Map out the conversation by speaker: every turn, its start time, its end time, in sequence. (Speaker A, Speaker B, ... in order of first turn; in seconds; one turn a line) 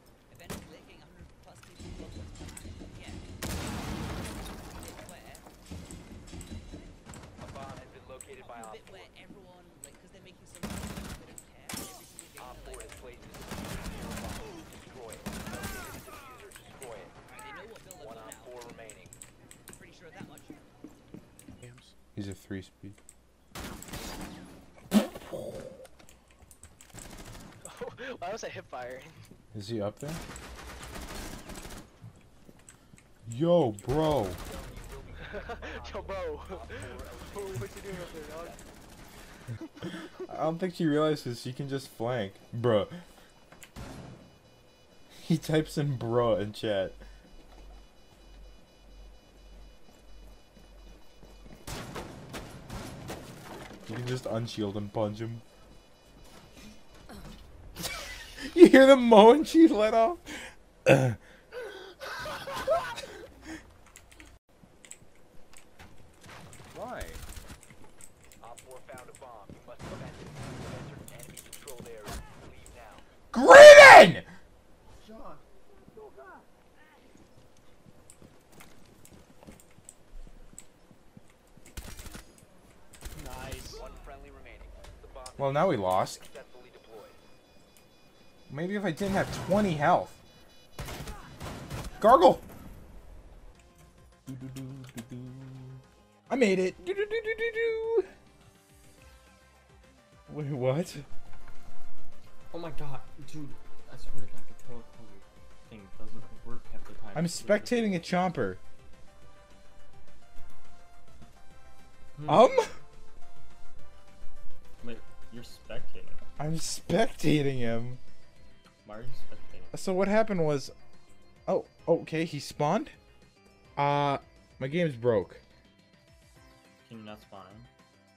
Speaker A: 0.3-5.5
Speaker B: 7.4-9.1
Speaker A: 8.3-13.0
Speaker B: 12.4-17.2
Speaker A: 17.3-18.9
Speaker B: 18.0-19.1
Speaker A: 19.8-20.6
Speaker C: 22.1-23.0
Speaker D: 27.6-29.1
Speaker C: 29.5-30.2
Speaker C: 33.3-34.4
Speaker B: 33.7-38.8
Speaker D: 35.3-38.6
Speaker C: 40.1-43.0
Speaker C: 45.2-47.0
Speaker C: 53.9-55.4
Speaker C: 58.4-61.2
Speaker C: 66.7-67.2
Speaker B: 68.4-73.1
Speaker C: 73.3-74.3
Speaker B: 83.8-87.2
Speaker C: 85.4-86.3
Speaker C: 88.5-90.2
Speaker C: 92.0-92.5
Speaker C: 94.3-98.1
Speaker C: 100.3-101.1
Speaker E: 102.5-108.3
Speaker C: 107.2-108.6
Speaker E: 112.2-112.8
Speaker C: 112.2-112.8
Speaker E: 114.8-116.3
Speaker C: 116.4-118.0
Speaker E: 118.8-119.8
Speaker C: 119.7-120.7
Speaker C: 121.5-123.0
Speaker C: 123.8-125.4
Speaker E: 126.8-127.7